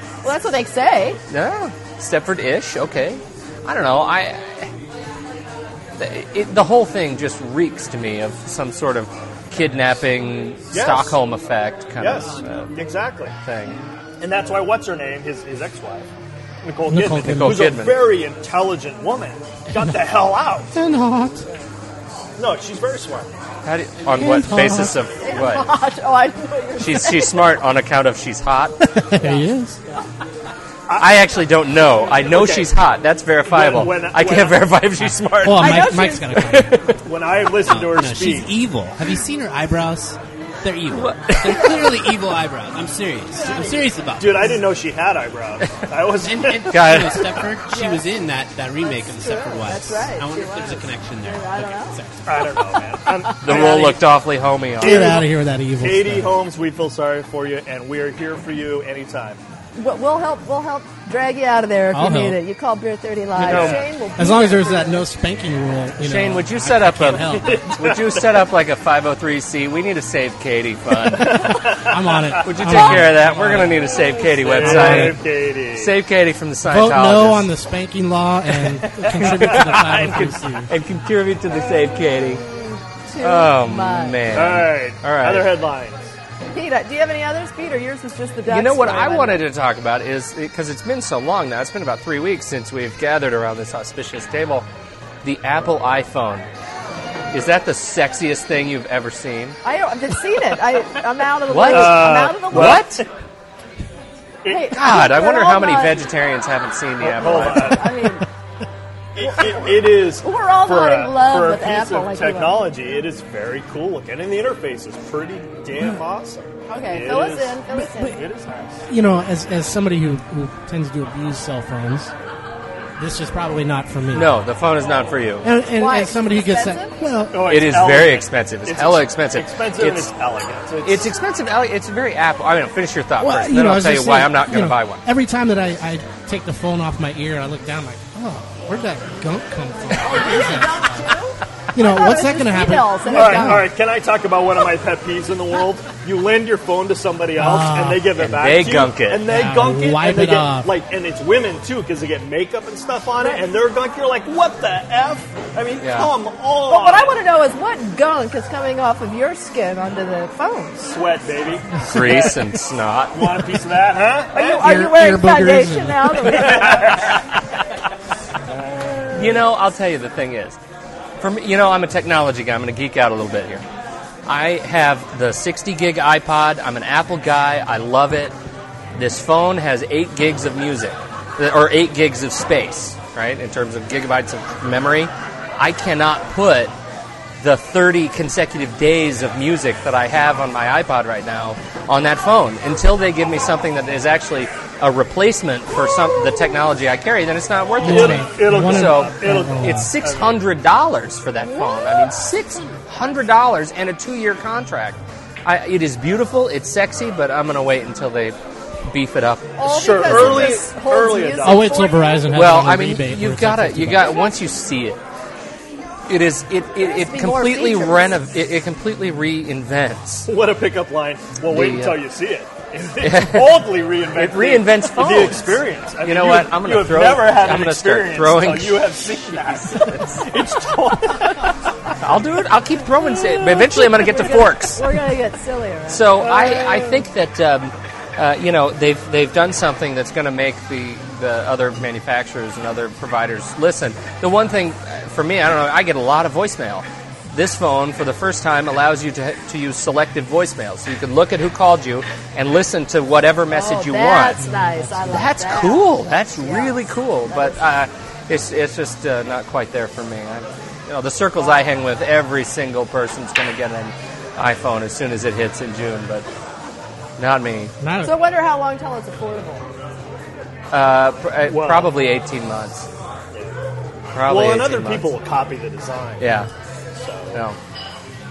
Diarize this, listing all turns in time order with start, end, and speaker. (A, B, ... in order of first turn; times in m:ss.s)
0:00.2-0:01.2 A
0:01.3-0:04.7 B
0:06.0-0:12.7 B
0:10.7-0:11.2 C
0:12.0-0:13.3 C
0:13.4-0:13.8 B
0:14.2-0:16.1 C
0:16.6-0:20.7 C
0:16.9-0:17.7 D
0:17.2-0:18.1 B
0:20.7-0:21.4 D
0:22.4-0:23.3 C
0:23.6-0:25.7 B
0:24.1-0:25.0 D
0:25.2-0:27.4 A
0:26.8-0:28.8 B
0:28.8-0:29.8 D
0:29.2-0:30.0 A
0:30.9-0:31.2 C
0:31.0-0:37.0 B
0:32.2-0:32.7 C
0:33.5-0:34.7 C
0:35.4-0:36.8 D
0:35.6-0:36.3 A
0:37.0-0:38.5 C
0:37.6-0:44.6 E
0:40.9-0:42.1 B
0:43.3-0:47.4 C
0:46.2-0:52.5 E
0:46.7-0:47.3 B
0:47.7-0:48.1 A
0:48.8-0:52.0 A
0:52.2-0:54.0 C
0:52.7-0:53.9 A
0:53.4-0:55.2 B
0:54.8-0:56.3 D
0:54.8-0:59.4 C
0:59.8-1:05.0 A
1:01.9-1:02.4 D
1:03.4-1:03.8 B
1:03.4-1:03.8 C
1:04.2-1:07.6 D
1:06.0-1:11.6 B
1:07.3-1:08.5 C
1:11.1-1:13.0 C
1:11.3-1:14.1 D
1:12.4-1:17.5 B
1:14.4-1:15.9 C
1:14.6-1:15.2 D
1:16.6-1:20.7 D
1:18.5-1:22.4 B
1:19.0-1:20.4 C
1:23.0-1:24.2 A
1:23.2-1:25.5 B
1:24.3-1:26.1 C
1:26.5-1:29.4 A
1:28.5-1:34.6 B
1:35.2-1:36.5 B
1:37.3-1:39.6 B
1:39.6-1:42.9 A
1:41.5-1:43.0 B
1:41.7-1:43.0 C
1:44.4-1:44.7 C
1:44.5-1:46.1 A
1:44.7-1:47.9 B
1:47.0-1:47.9 C
1:47.2-1:48.2 A
1:48.0-1:48.2 D
1:49.1-1:58.8 C
1:49.2-1:52.7 A
1:56.7-1:58.2 A
1:57.7-1:58.2 D
1:58.9-2:02.1 D
2:03.0-2:04.3 D
2:04.1-2:05.5 B
2:05.4-2:07.5 D
2:05.7-2:06.9 A
2:07.3-2:11.1 C
2:07.4-2:10.1 B
2:10.8-2:15.0 B
2:13.2-2:21.0 D
2:19.9-2:23.6 A
2:21.7-2:23.7 D
2:23.1-2:37.1 C
2:27.4-2:28.1 D
2:28.2-2:29.2 B
2:29.2-2:30.7 D
2:35.8-2:36.1 B
2:36.7-2:40.9 A
2:40.8-2:42.6 C
2:41.8-2:43.4 B
2:43.1-2:44.7 C
2:44.3-2:47.1 A
2:44.6-2:46.3 D
2:46.3-2:47.2 C
2:48.5-2:49.4 C
2:49.1-2:50.6 B
2:51.2-2:53.6 B
2:54.2-2:58.3 B
2:58.9-3:06.7 B
3:07.4-3:30.6 B
3:17.8-3:19.9 D
3:17.8-3:20.4 C
3:21.5-3:22.0 A
3:29.6-3:32.2 A
3:29.6-3:31.8 C
3:31.4-3:34.2 D
3:32.3-3:35.0 B
3:36.1-3:40.3 B
3:36.8-3:38.2 A
3:40.2-3:51.6 C
3:41.4-3:42.0 B
3:43.0-3:50.2 B
3:52.0-3:54.8 B
3:53.0-3:56.3 A
3:55.9-4:14.4 B
3:56.2-3:56.9 C
4:13.5-4:17.6 A
4:14.4-4:15.3 D
4:15.1-4:26.3 B
4:27.2-4:27.7 B
4:27.8-4:28.2 D
4:28.0-4:29.6 A
4:30.7-4:32.9 B
4:31.4-4:31.9 C
4:34.1-4:35.1 B
4:34.3-4:37.4 C
4:36.2-4:36.5 B
4:37.3-4:37.6 B